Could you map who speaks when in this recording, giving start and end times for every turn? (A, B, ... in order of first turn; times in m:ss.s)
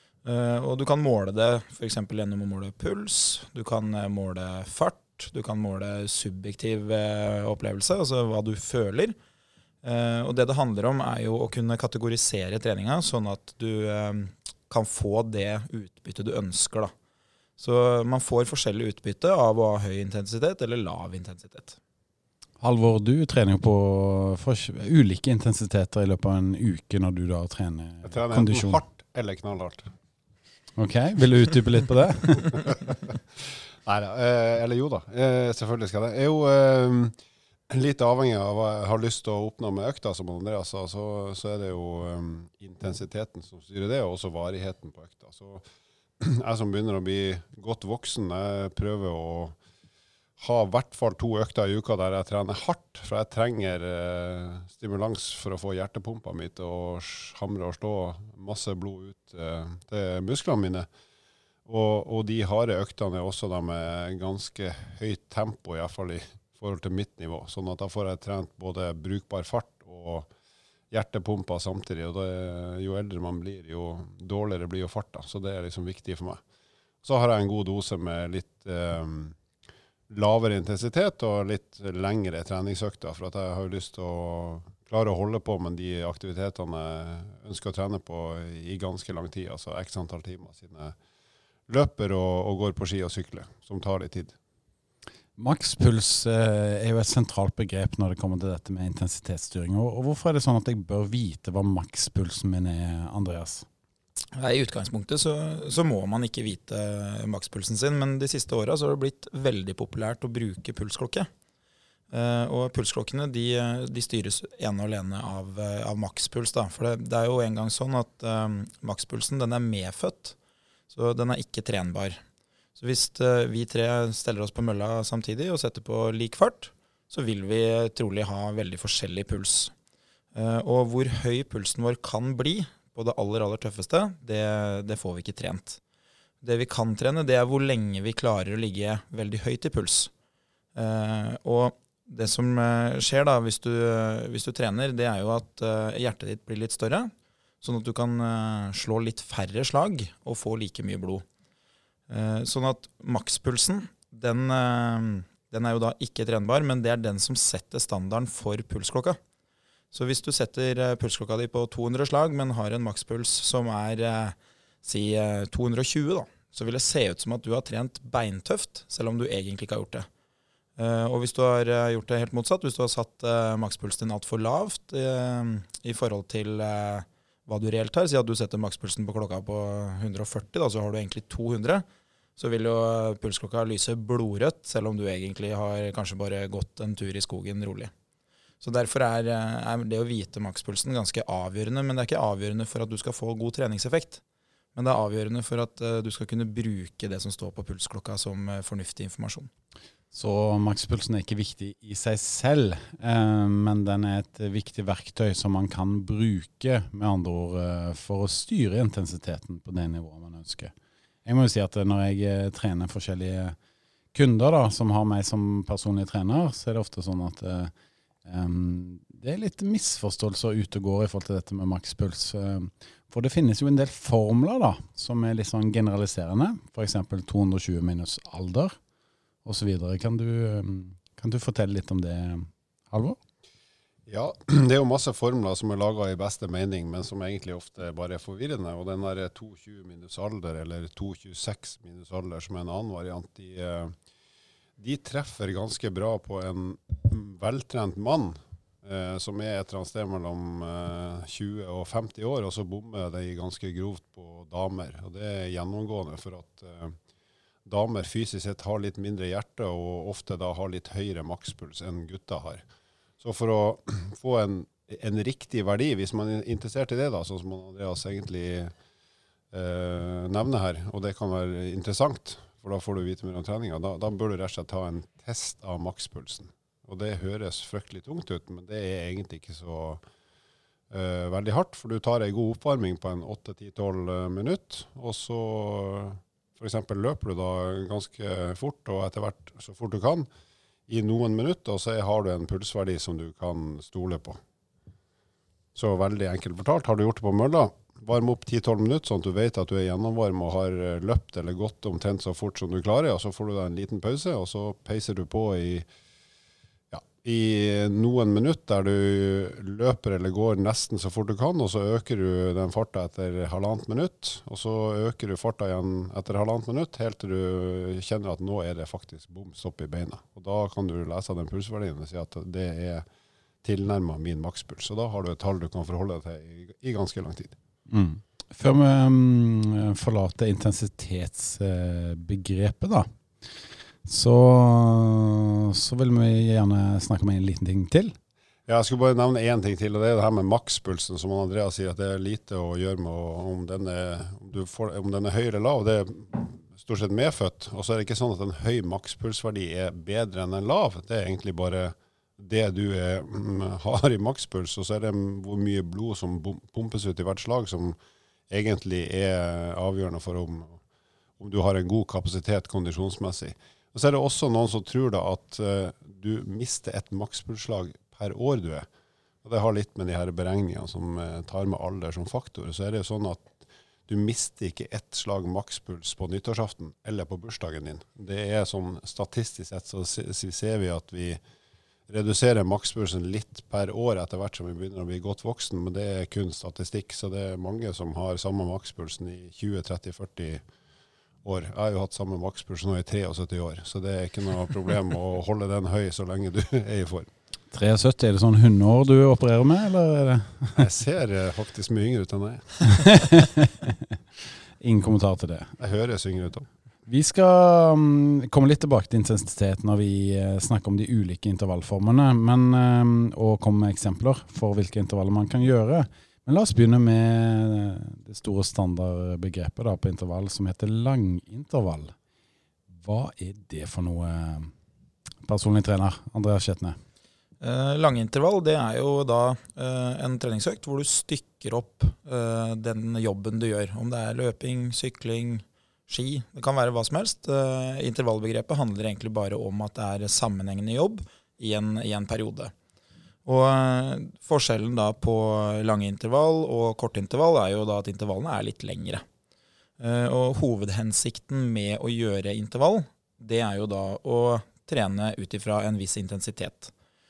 0:00.2-0:09.2 A
0:09.8-0:16.9 A
0:17.6-0:21.8 A
0:22.6-0:28.8 B
0:28.0-0:29.9 C
0:30.8-0:32.6 B
0:33.8-0:37.1 C
0:37.7-0:45.6 C
0:46.2-0:49.6 C
0:50.4-1:00.9 C
1:01.6-1:10.3 C
1:10.9-1:16.4 C
1:17.0-1:19.4 C
1:20.1-1:30.9 C
1:31.7-1:34.3 C
1:35.4-1:43.6 B
1:44.3-1:51.3 A
1:52.1-2:00.4 A
2:00.9-2:02.2 A
2:02.8-2:09.7 A
2:10.3-2:15.8 A
2:16.4-2:20.1 A
2:20.7-2:31.2 A
2:32.1-2:39.2 A
2:39.9-2:50.1 A
2:50.8-3:01.8 A
3:02.4-3:07.9 A
3:08.6-3:14.2 A
3:14.7-3:19.5 A
3:20.1-3:30.7 B
3:31.2-3:33.6 B
3:34.1-3:37.7 B
3:38.2-3:48.7 B
3:49.4-3:53.2 B
3:54.1-4:03.9 C
4:04.8-4:17.0 C
4:17.6-4:22.6 C
4:23.2-4:28.7 C
4:29.5-4:40.0 C
4:40.9-4:50.3 C
4:50.9-4:54.4 C
4:55.7-5:05.9 C
5:06.9-5:23.0 C
5:23.6-5:27.6 C
5:27.9-5:33.1 B
5:34.0-5:38.1 B
5:38.7-5:58.0 C
5:58.5-6:00.8 C
6:01.4-6:08.9 C
6:09.4-6:13.6 C
6:14.1-6:21.4 C
6:22.1-6:30.6 C
6:31.4-6:37.3 C
6:37.7-6:40.8 B
6:40.7-6:43.2 C
6:42.9-6:44.2 B
6:44.8-6:45.7 B
6:45.8-6:46.7 C
6:47.1-7:02.1 B
7:02.9-7:04.7 B
7:05.4-7:07.0 B
7:07.6-7:22.7 A
7:23.4-7:29.2 A
7:30.0-7:36.9 A